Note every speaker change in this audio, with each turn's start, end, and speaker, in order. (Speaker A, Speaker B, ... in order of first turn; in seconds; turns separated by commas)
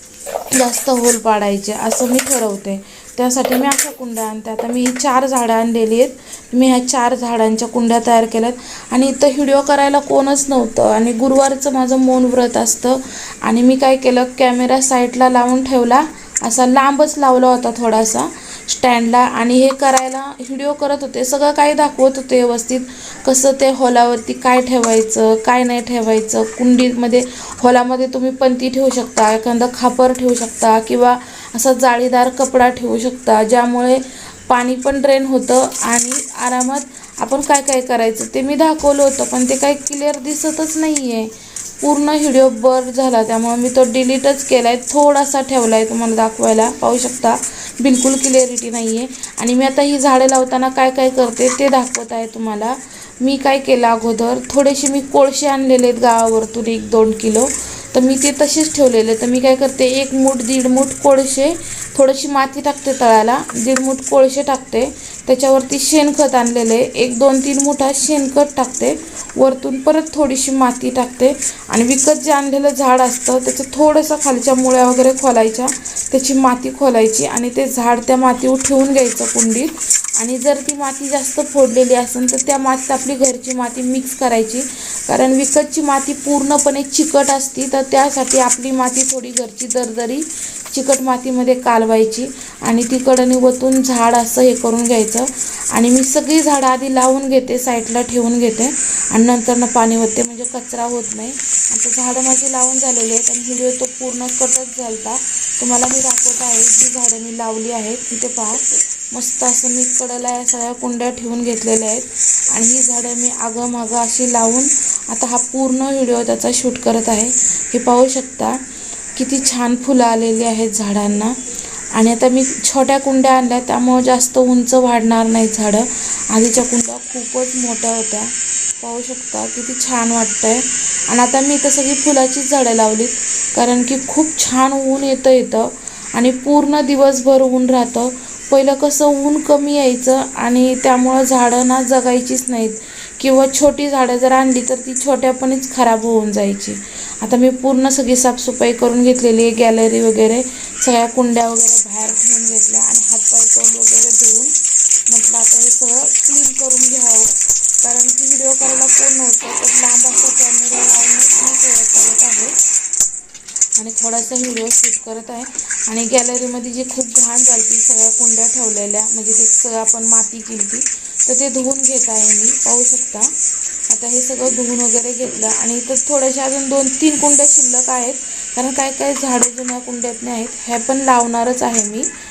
Speaker A: 0.5-118.6, Speaker A: 119.2-121.4, Speaker A: 121.9-154.5, Speaker A: 155.1-162.6, Speaker A: 163.8-173.3, Speaker A: 173.9-182.1